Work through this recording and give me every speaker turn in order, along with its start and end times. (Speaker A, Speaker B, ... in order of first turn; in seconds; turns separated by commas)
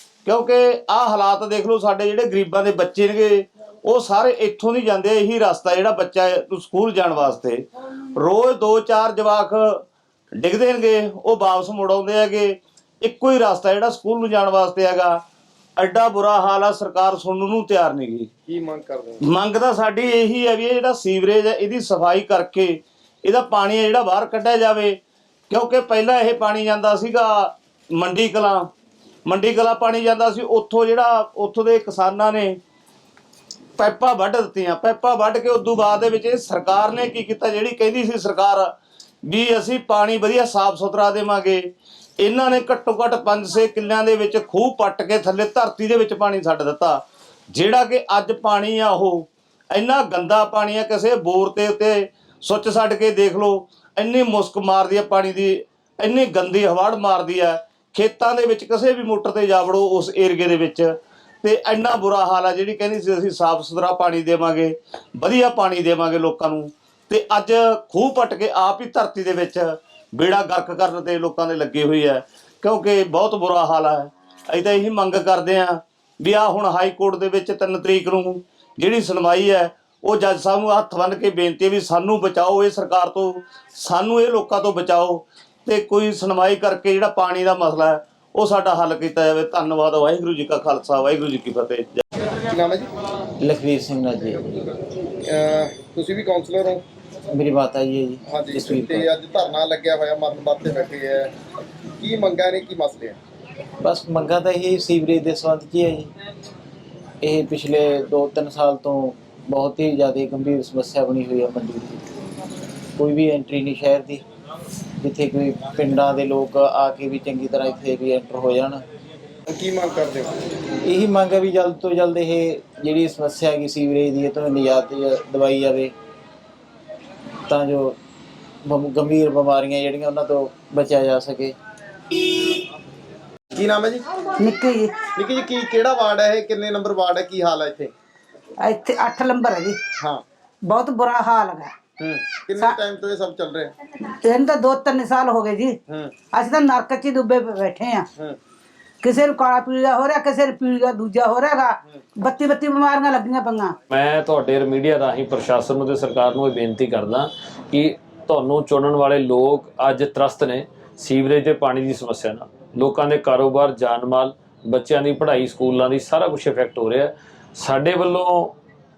Speaker A: 0.2-7.6, Speaker A: 8.2-9.8, Speaker A: 10.4-15.2, Speaker A: 15.8-18.3, Speaker B: 18.5-19.2, Speaker A: 19.2-25.0, Speaker A: 25.5-28.7, Speaker A: 29.2-32.6, Speaker A: 33.8-38.7, Speaker A: 39.2-41.6, Speaker A: 42.2-92.0, Speaker B: 92.5-92.9, Speaker C: 93.4-94.5, Speaker B: 95.3-96.8, Speaker C: 97.3-99.1, Speaker B: 98.3-101.3, Speaker B: 102.0-103.2, Speaker C: 103.8-106.1, Speaker C: 107.2-112.0, Speaker C: 113.0-114.2, Speaker C: 115.0-118.8, Speaker B: 119.5-120.4, Speaker C: 120.8-125.9, Speaker C: 127.5-128.0, Speaker C: 128.6-131.5, Speaker B: 133.5-134.1, Speaker D: 134.4-135.0, Speaker B: 135.2-137.9, Speaker D: 138.6-139.8, Speaker D: 140.6-141.7, Speaker B: 142.0-143.7, Speaker D: 144.1-145.8, Speaker B: 145.9-146.1, Speaker D: 146.3-148.1, Speaker D: 149.0-153.8, Speaker E: 153.9-168.5